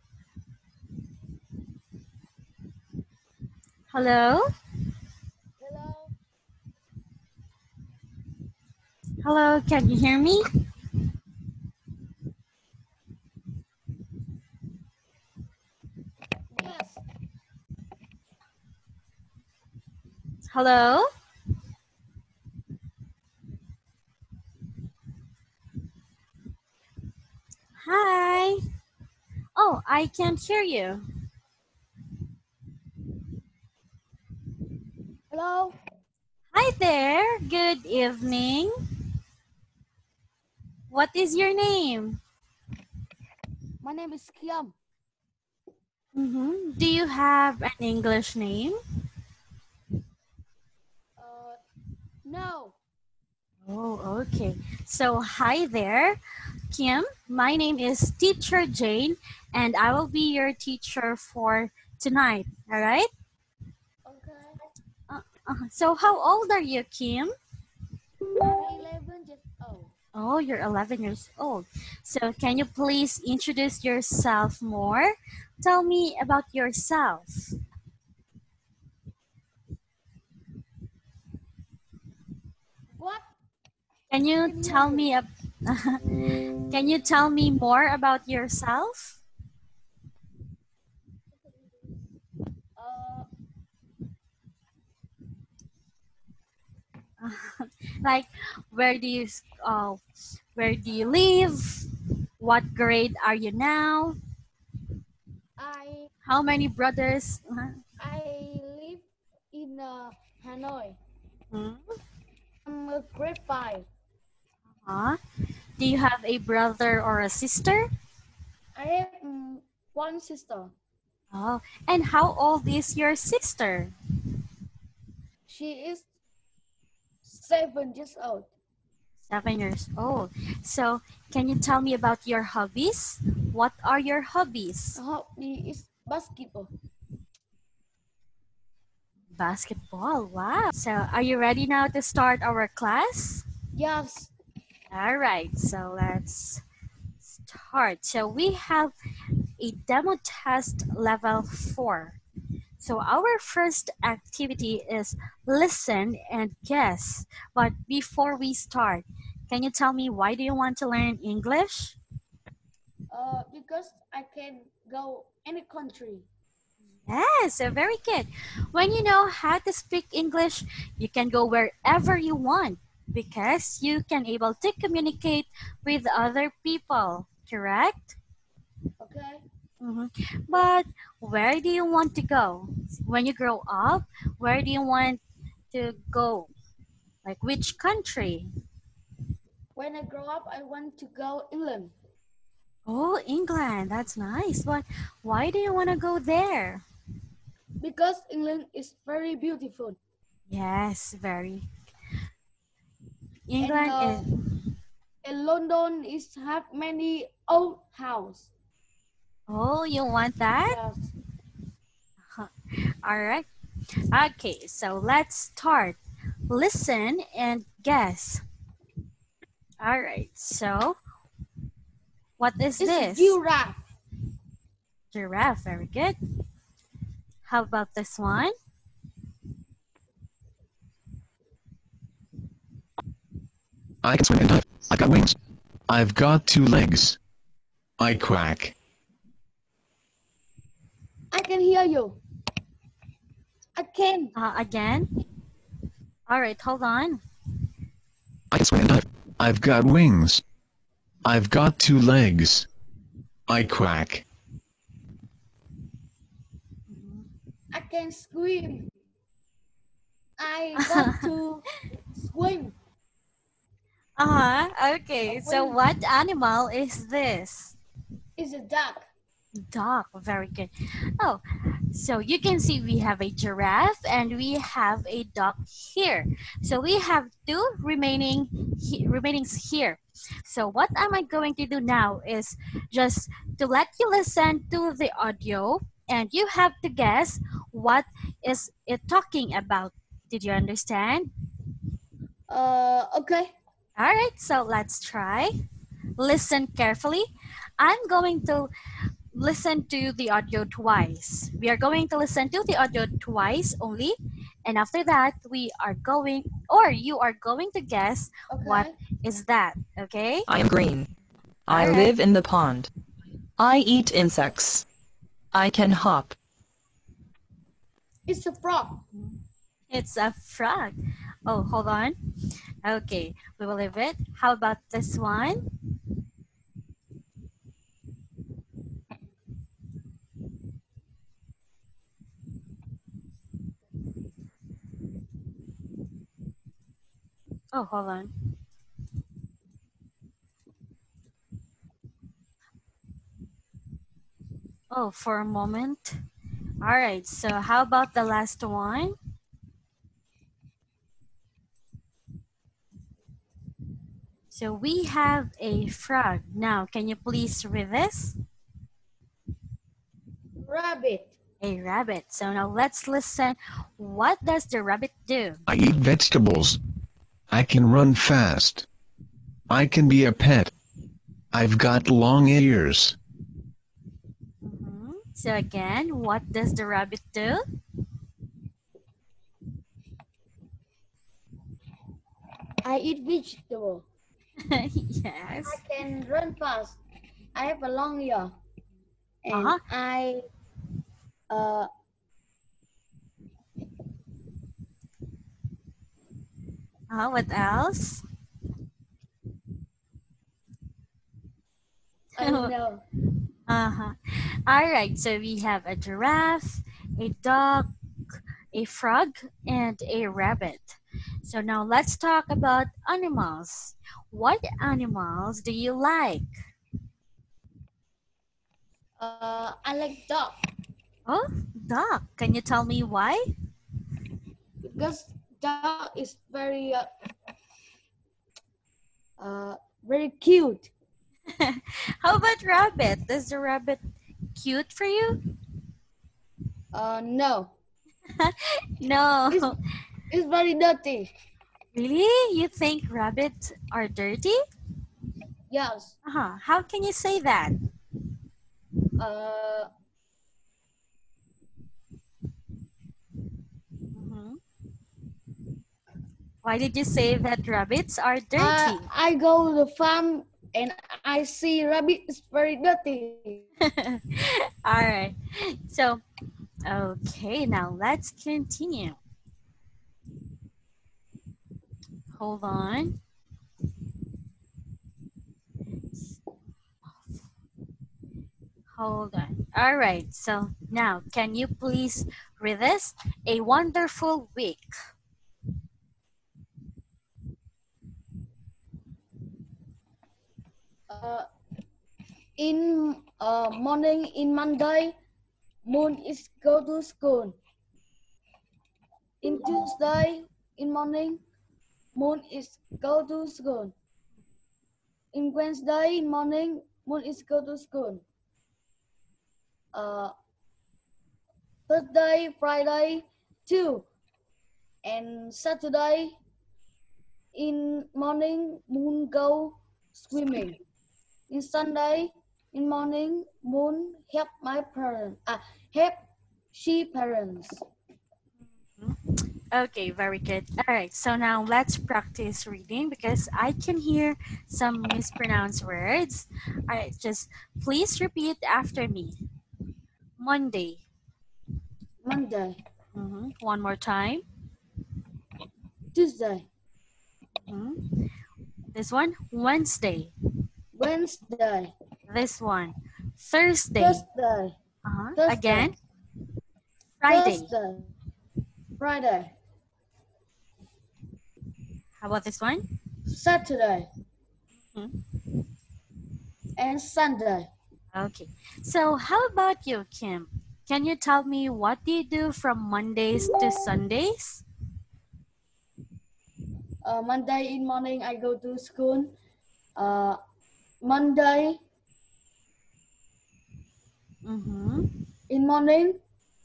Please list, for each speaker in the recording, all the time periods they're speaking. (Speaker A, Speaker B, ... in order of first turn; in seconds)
Speaker A: 3.9-4.5, 9.2-10.4, 20.5-21.1, 27.8-28.6, 29.6-31.0, 36.5-38.7, 40.9-42.2, 46.1-48.8, 53.7-56.2, 56.7-63.1, 65.1-67.3, 70.2-77.5, 84.1-89.2, 97.2-100.0, 100.6-101.9, 102.4-104.2, 106.3-107.8, 111.5-111.8, 114.9-115.2, 115.8-117.9, 121.3-123.9, 129.3-135.0, 139.3-143.4, 144.9-146.6, 147.2-148.9, 149.6-152.2, 152.8-162.0, 167.1-178.2, 179.8-185.2, 185.7-186.5, 187.2-188.5, 192.9-196.8, 200.5-201.7, 203.5-204.2, 209.5-210.8, 213.0-213.5, 214.1-216.0, 216.5-218.4, 219.8-221.0, 222.4-223.4, 225.1-226.2, 227.5-228.5, 244.4-245.1, 246.3-247.2, 256.9-257.3, 260.8-261.3, 264.2-267.8, 269.6-271.4, 271.9-291.3, 294.0-295.5, 296.2-297.3, 297.8-298.7, 299.3-310.5, 311.7-312.1, 319.9-322.1, 322.8-325.7, 337.7-338.3, 344.9-346.2, 346.8-349.1, 354.5-358.4, 361.6-365.6, 374.6-377.6, 384.6-385.8, 389.5-389.8, 397.1-398.2, 402.4-402.7, 403.7-407.9, 408.7-416.5, 421.3-423.4, 431.6-434.0, 434.6-435.4, 438.4-439.8, 441.9-444.6, 446.2-447.8, 454.1-454.6, 456.6-459.1, 463.9-466.2, 466.9-469.2, 472.4-473.2, 478.9-484.9, 529.7-539.4, 540.4-541.0, 543.1-544.4, 547.7-548.0, 548.9-550.3, 552.3-554.2, 555.0-555.9, 557.2-557.7, 562.2-562.9, 568.1-574.6, 584.5-585.1
Speaker B: 5.6-6.1, 16.5-17.0, 35.3-35.8, 43.8-44.7, 51.2-51.6, 52.2-52.8, 64.1-64.6, 68.4-69.9, 83.0-83.2, 84.4-85.1, 92.8-93.3, 105.6-106.1, 108.0-111.0, 112.7-113.9, 118.8-120.7, 125.5-126.1, 127.2-128.5, 135.0-136.7, 143.8-144.3, 163.1-166.3, 179.0-179.4, 189.8-191.9, 197.8-200.0, 203.6-204.2, 205.2-208.5, 210.7-211.1, 222.8-223.8, 241.3-242.2, 243.8-244.3, 257.7-258.9, 260.4-261.6, 262.2-262.7, 265.3-265.8, 268.4-269.1, 292.5-293.5, 308.5-308.9, 318.3-319.0, 360.6-361.3, 382.9-384.1, 385.6-387.0, 387.6-388.5, 389.4-390.4, 391.5-391.9, 402.4-403.0, 419.2-420.6, 424.8-427.1, 429.4-430.9, 436.9-437.7, 440.3-441.3, 445.7-446.1, 449.2-449.9, 458.6-463.7, 491.1-491.5, 492.6-495.1, 495.9-497.6, 499.4-501.4, 502.2-503.9, 505.3-508.2, 509.9-510.3, 511.9-514.1, 515.0-516.4, 517.5-520.8, 521.5-526.2, 526.7-527.8, 542.2-542.8, 546.1-546.7, 550.9-551.9, 554.0-554.7, 555.4-555.9, 557.3-558.1, 559.0-559.5, 563.3-564.1, 566.8-567.7, 577.0-579.3, 580.0-580.4, 581.0-581.8, 585.5-586.2
Speaker C: 234.0-235.3, 235.9-237.2, 238.0-238.7, 248.5-250.4, 251.2-252.7, 253.5-254.2, 365.7-366.8, 367.5-368.9, 369.7-370.7, 371.5-373.2
Speaker D: 310.5-311.1, 311.7-312.9, 313.6-314.8, 315.5-316.4